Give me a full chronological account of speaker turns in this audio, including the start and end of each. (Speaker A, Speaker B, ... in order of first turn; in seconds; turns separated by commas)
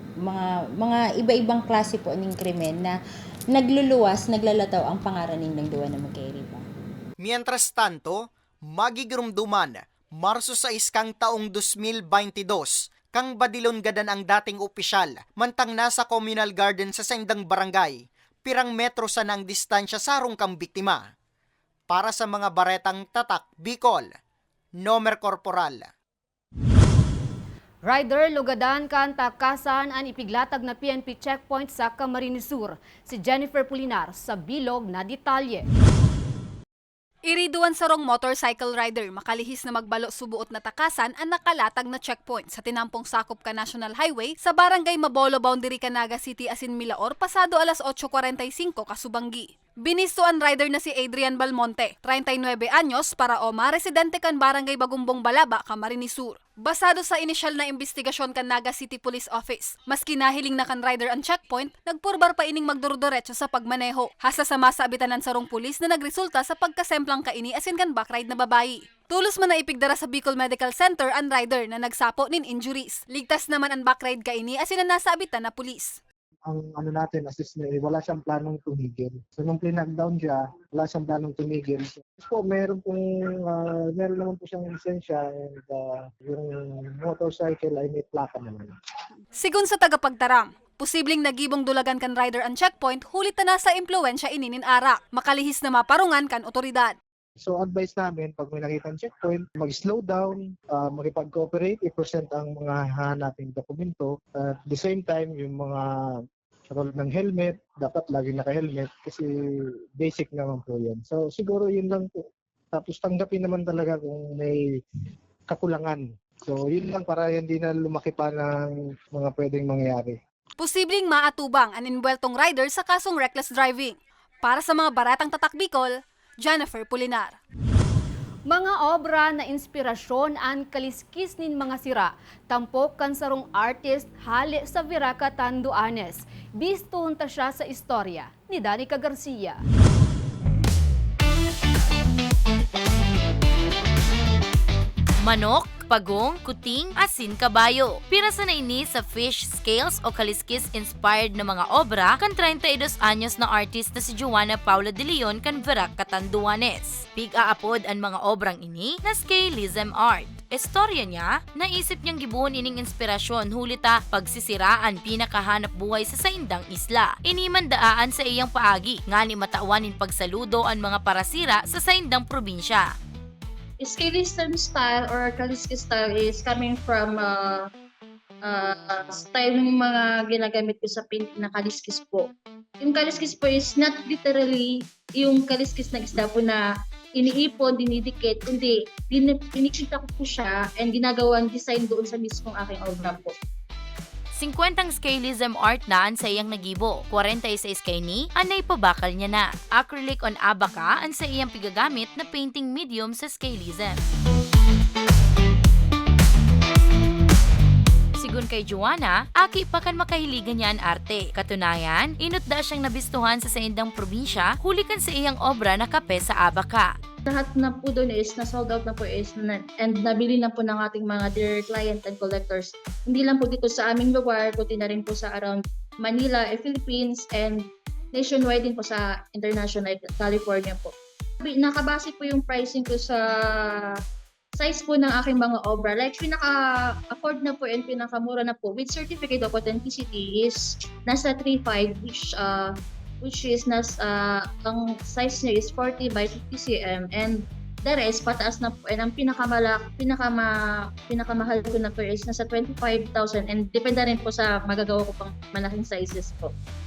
Speaker A: 0.2-3.0, Speaker A: 3.5-6.6, Speaker B: 7.2-21.0, Speaker B: 21.9-24.1, Speaker B: 24.8-25.9, Speaker C: 27.8-35.7, Speaker D: 37.3-76.0, Speaker E: 76.5-83.0, Speaker E: 83.5-86.5, Speaker E: 87.0-88.7, Speaker D: 89.4-97.0, Speaker E: 97.5-105.8, Speaker E: 106.8-109.2, Speaker E: 110.0-112.1, Speaker E: 112.8-114.6, Speaker E: 115.6-116.0, Speaker E: 116.6-118.5, Speaker E: 119.2-120.2, Speaker D: 120.6-127.4, Speaker C: 128.5-139.6, Speaker F: 145.2-172.9, Speaker G: 173.8-177.7, Speaker G: 178.4-182.3, Speaker G: 182.8-186.6, Speaker G: 187.2-193.3, Speaker F: 194.3-204.0, Speaker F: 208.2-216.9, Speaker G: 217.2-234.0, Speaker G: 234.6-250.5, Speaker G: 251.1-256.5